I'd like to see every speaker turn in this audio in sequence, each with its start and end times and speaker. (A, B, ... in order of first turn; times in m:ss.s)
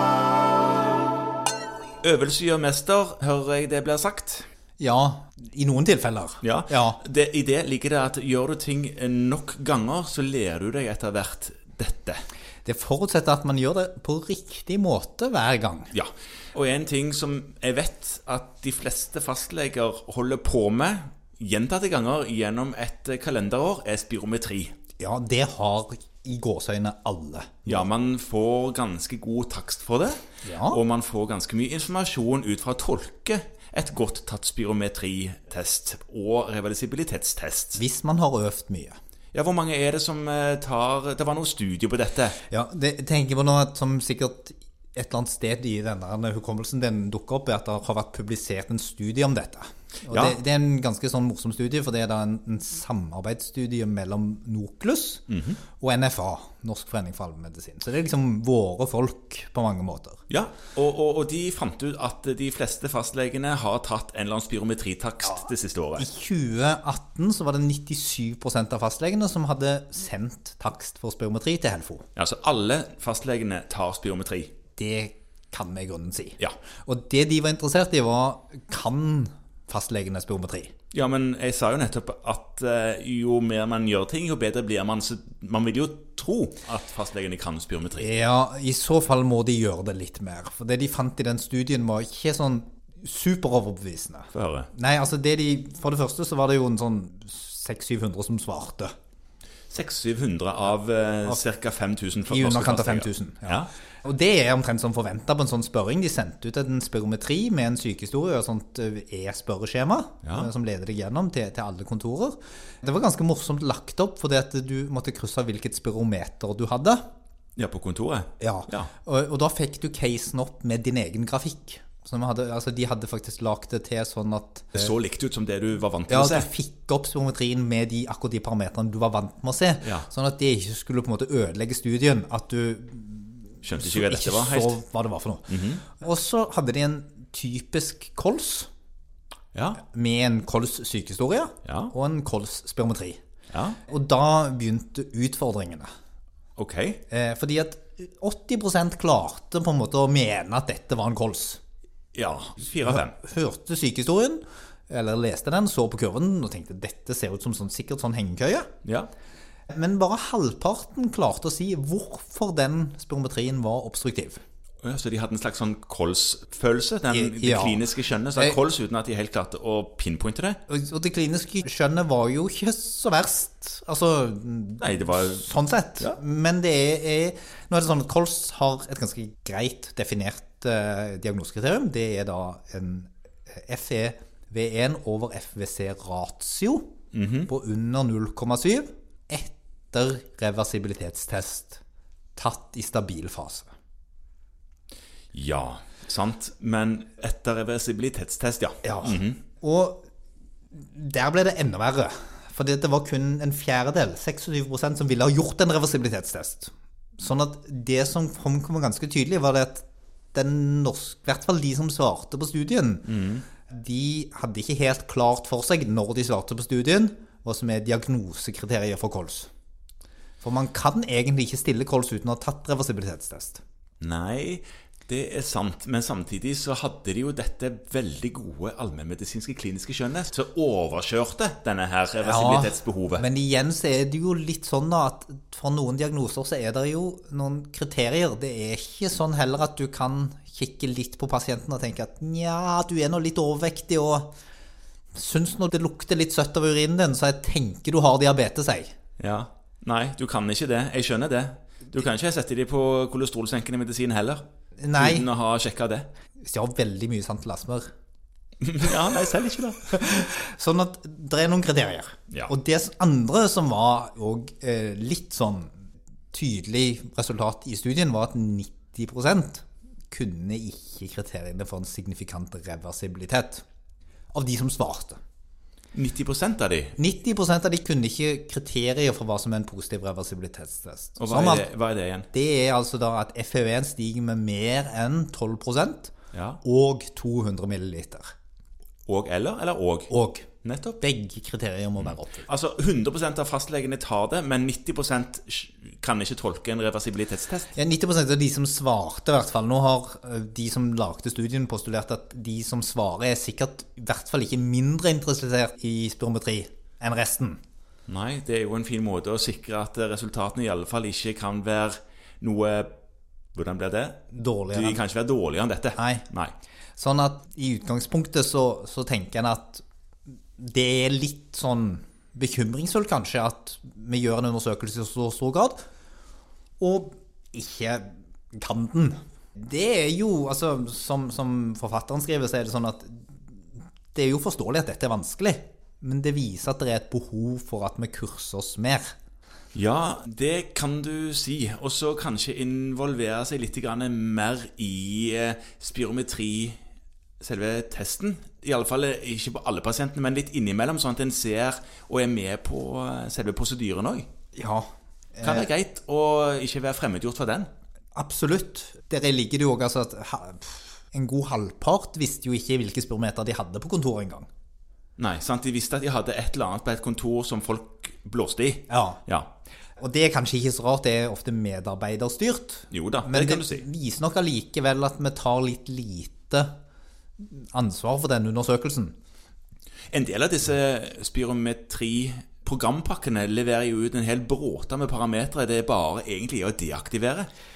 0:02.0-0:04.5 A
0:04.8-0:07.0 B
0:06.4-0:12.2 A
0:12.6-0:15.9 B
0:15.9-0:24.7 A
0:25.0-0:27.8 B
0:27.6-0:37.8 A
0:30.4-0:30.8 B
0:37.8-0:39.0 B
0:39.3-0:42.4 A
0:42.5-0:55.2 B
0:50.1-0:50.4 A
0:55.3-0:55.6 A
0:55.8-1:00.2 B
1:00.3-1:06.0 A
1:05.3-1:12.1 B
1:12.2-1:14.5 A
1:14.8-1:20.7 B
1:20.9-1:28.1 A
1:28.0-1:38.9 B
1:34.3-1:34.7 A
1:39.7-1:43.7 A
1:42.3-1:57.0 B
1:50.2-1:50.5 A
1:57.6-1:58.9 A
1:58.4-2:04.9 B
2:04.7-2:06.5 A
2:06.1-2:18.7 B
2:13.6-2:14.8 A
2:15.5-2:15.8 A
2:19.5-2:19.8 A
2:19.8-2:23.2 B
2:21.6-2:21.9 A
2:23.5-2:23.8 A
2:23.9-2:25.9 B
2:26.6-2:27.0 A
2:27.1-2:31.6 B
2:32.1-2:33.1 A
2:32.8-2:38.7 B
2:38.8-2:39.1 A
2:39.7-2:44.4 B
2:44.8-2:50.6 A
2:47.1-2:47.8 B
2:50.7-3:06.9 B
2:54.8-2:55.4 A
3:07.1-3:07.5 A
3:07.5-3:11.8 B
3:12.4-3:13.7 B
3:15.3-3:19.4 A
3:18.8-3:20.0 B
3:20.7-3:33.1 B
3:33.1-3:33.4 A
3:33.7-3:39.5 B
3:40.4-3:43.6 B
3:44.0-3:53.2 A
3:52.2-4:04.3 B
4:05.1-4:08.9 B
4:09.2-4:14.4 A
4:14.8-4:15.3 B
4:14.9-4:16.1 A
4:16.4-4:17.9 B
4:18.6-4:20.2 A
4:19.9-4:25.7 B
4:26.3-4:33.6 B
4:34.3-4:35.2 B
4:35.9-4:37.0 A
4:37.0-4:41.7 B
4:41.2-4:42.3 A
4:42.3-4:46.1 B
4:46.3-4:46.6 A
4:46.6-4:48.3 B
4:49.1-4:50.1 A
4:50.1-4:50.4 B
4:50.6-4:51.0 A
4:51.0-4:52.5 B
4:52.0-4:57.7 A
4:57.7-5:07.6 B
5:08.1-5:12.9 A
5:13.5-5:14.2 A
5:14.3-5:15.0 B
5:14.7-5:16.5 A
5:16.0-5:16.2 B
5:17.0-5:19.8 B
5:20.6-5:25.8 B
5:26.8-5:39.1 B
5:39.7-5:46.8 A
5:47.4-5:54.3 A
5:54.5-5:55.7 B
5:55.4-5:57.7 A
5:58.1-6:04.5 B
6:05.2-6:09.5 A
6:08.9-6:09.2 B
6:10.0-6:16.7 B
6:12.9-6:13.8 A
6:17.4-6:19.2 B
6:20.1-6:27.5 A